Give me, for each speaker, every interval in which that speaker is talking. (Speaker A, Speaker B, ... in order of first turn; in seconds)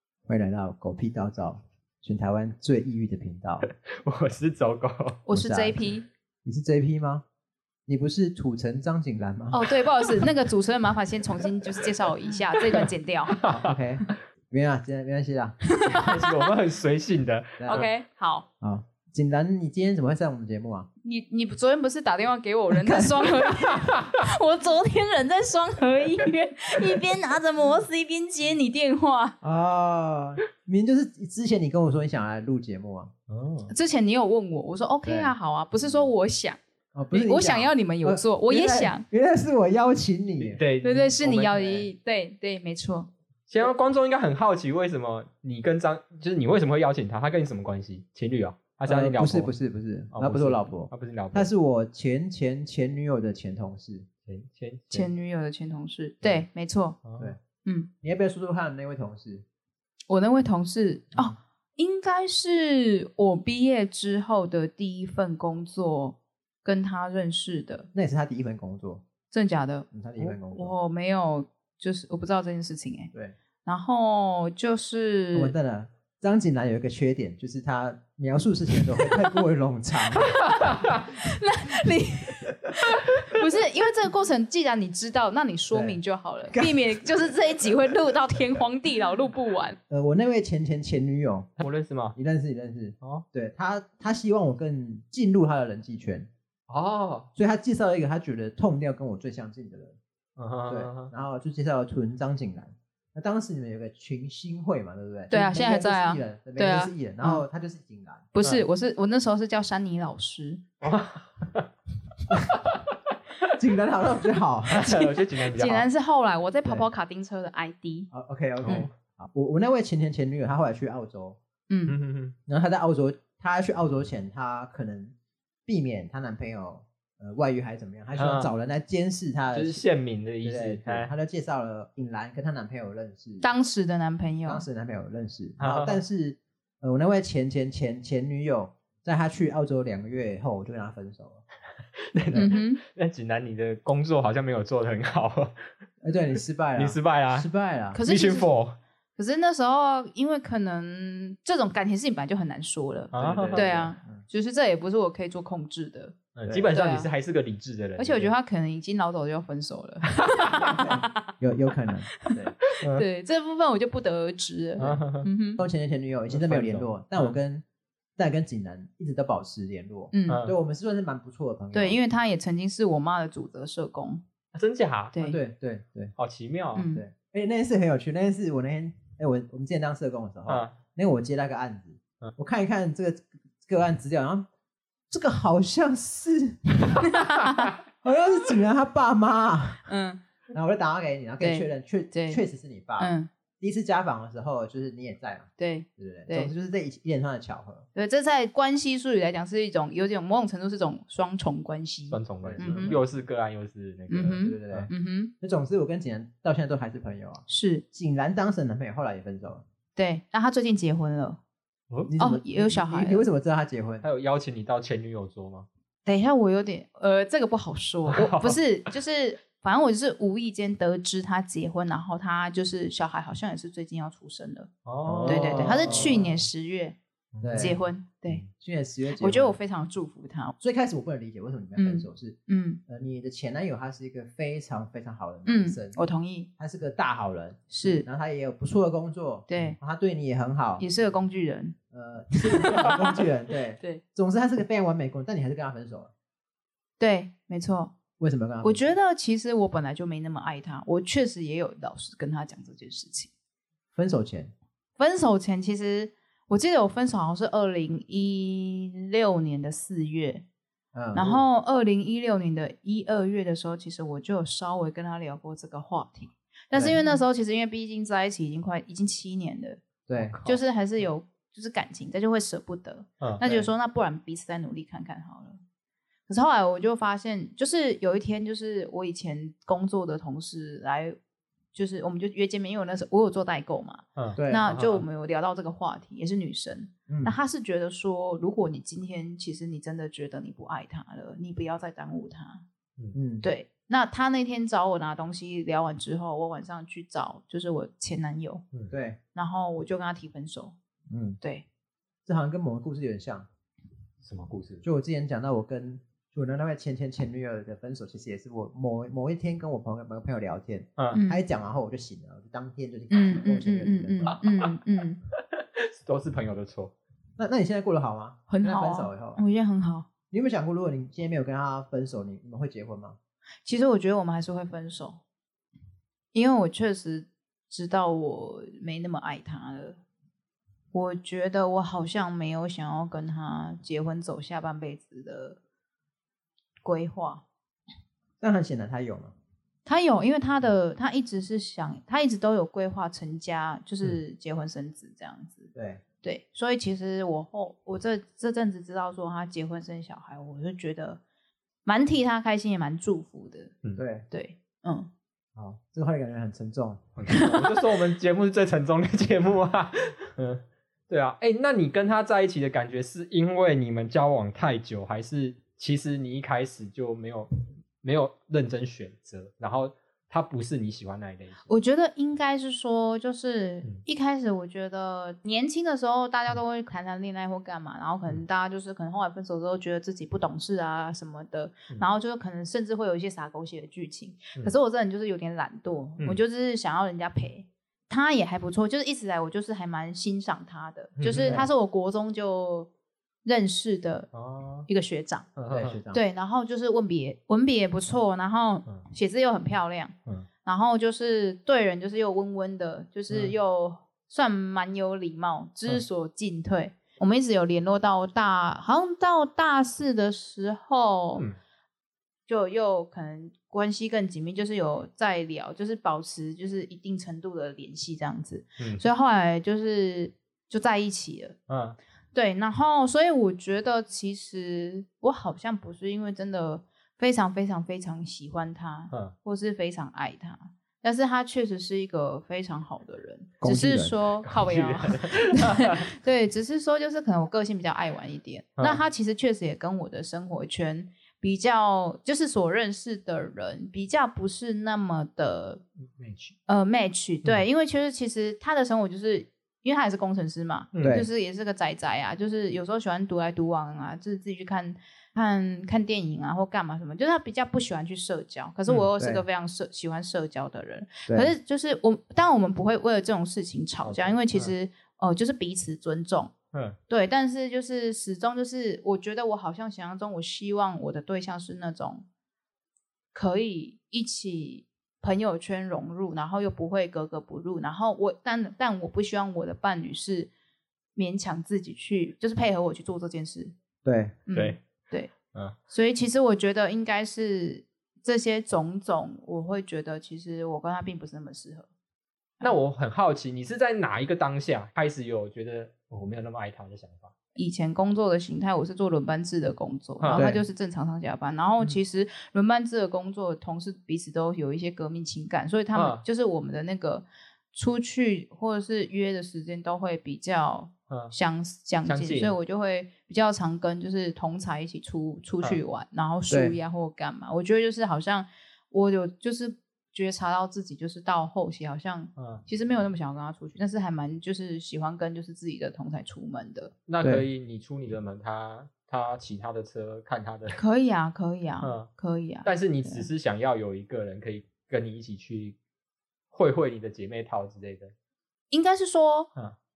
Speaker A: 0.3-3.7, 5.3-7.2, 7.9-9.6, 13.4-15.6, 17.6-17.9, 18.6-20.9, 22.7-23.3, 29.4-33.1, 35.0-35.3, 36.9-40.6, 48.9-54.1, 58.0-59.4, 67.9-69.0, 69.9-70.7, 75.3-80.4, 85.7-87.3, 89.9-91.5, 92.2-96.3, 97.4-100.0, 100.7-108.3, 113.6-114.9, 118.1-121.4, 122.5-125.2, 125.7-129.8, 130.4-133.5, 134.5-141.4, 142.3-142.6, 146.0-148.0, 153.2-154.2, 156.4-156.7, 160.8-162.6, 165.6-167.6, 168.2-172.0, 175.2-176.2, 176.9-184.5, 185.1-187.2, 188.0-189.8, 190.5-197.9, 202.4-203.0, 204.4-209.6, 212.1-214.1, 225.1-226.4, 227.4-227.8, 228.3-229.6, 230.6-236.0, 236.6-240.8, 241.9-246.1, 248.2-248.9, 253.9-254.5, 260.9-261.4, 266.7-267.1, 270.1-270.4, 273.4-273.7, 284.4-284.7, 287.1-287.4, 293.1-293.5, 298.9-299.2, 301.1-301.4, 302.2-303.5, 304.8-314.4, 317.4-319.4, 320.3-323.2, 338.4-339.3, 345.8-346.0, 354.0-354.3, 355.6-357.0, 391.3-391.7, 395.7-396.2, 433.6-434.2, 451.0-451.3, 459.2-459.4, 461.3-461.5, 484.0-484.4, 500.3-500.6, 516.5-516.8
Speaker B: 3.7-5.2, 13.3-13.8, 15.9-17.9, 23.8-24.1, 33.3-33.7, 40.4-41.9, 43.5-49.5, 50.1-51.5, 54.3-55.1, 57.0-57.3, 91.6-92.2, 96.7-97.3, 100.4-101.1, 110.8-111.7, 114.7-115.9, 118.6-118.9, 121.9-122.3, 128.2-128.5, 129.5-131.1, 135.6-136.0, 142.1-145.7, 146.8-147.5, 148.1-148.8, 153.1-153.7, 156.3-158.3, 160.3-160.8, 162.7-163.1, 164.8-165.3, 166.3-167.3, 170.3-170.6, 174.5-175.2, 176.2-176.9, 180.5-180.8, 202.1-204.9, 214.0-215.7, 218.1-218.6, 224.8-226.1, 227.3-227.8, 284.2-285.1, 304.2-304.8, 315.4-316.9, 357.2-371.7, 391.2-391.7, 394.3-394.9, 395.6-396.0, 421.7-422.0, 434.4-436.0, 446.2-446.6, 450.9-451.2, 464.0-464.7, 466.7-467.0, 484.5-484.8, 492.6-497.3, 500.2-500.5, 505.9-506.2, 511.1-511.4, 512.1-512.6, 522.4-522.6, 527.1-530.8, 531.8-532.1, 532.6-535.8, 536.5-538.1
Speaker C: 5.2-6.1, 9.5-13.4, 15.7-16.5, 17.7-18.5, 21.0-29.4, 33.7-36.6, 37.1-39.0, 40.8-43.1, 54.9-57.0, 57.6-57.9, 60.1-67.9, 69.3-73.1, 73.7-75.5, 79.0-79.3, 80.5-89.8, 105.3-107.4, 108.3-110.6, 114.8-118.1, 121.7-122.0, 133.4-134.7, 142.3-142.8, 147.9-148.5, 149.2-156.2, 156.7-157.1, 158.0-161.3, 162.2-165.6, 170.1-170.4, 171.7-174.2, 175.1-175.4, 176.8-177.0, 187.0-187.7, 189.9-190.2, 191.4-192.4, 193.0-193.3, 195.6-196.5, 197.9-203.0, 204.1-205.3, 207.5-207.8, 210.0-211.4, 212.2-213.3, 216.1-224.7, 225.2-227.0, 227.5-228.4, 229.2-230.6, 231.8-232.8, 235.5-236.5, 237.7-238.1, 239.5-239.8, 240.8-241.8, 242.4-243.1, 247.0-247.9, 248.6-253.3, 255.0-260.4, 261.1-275.6, 276.3-281.2, 281.7-292.6, 293.4-298.6, 299.4-300.8, 311.1-311.4, 313.1-315.2, 318.5-320.1, 323.6-325.2, 326.3-330.0, 330.9-335.6, 336.8-337.4, 339.9-351.2, 351.9-353.8, 354.3-355.1, 357.3-357.8, 371.7-392.9, 393.4-394.3, 394.9-395.5, 396.1-411.4, 412.5-421.6, 422.3-445.8, 446.7-466.5, 467.1-472.2, 473.3-480.5, 481.2-483.7, 484.5-485.3, 485.9-491.9, 497.6-526.9, 530.7-533.3, 538.7-539.5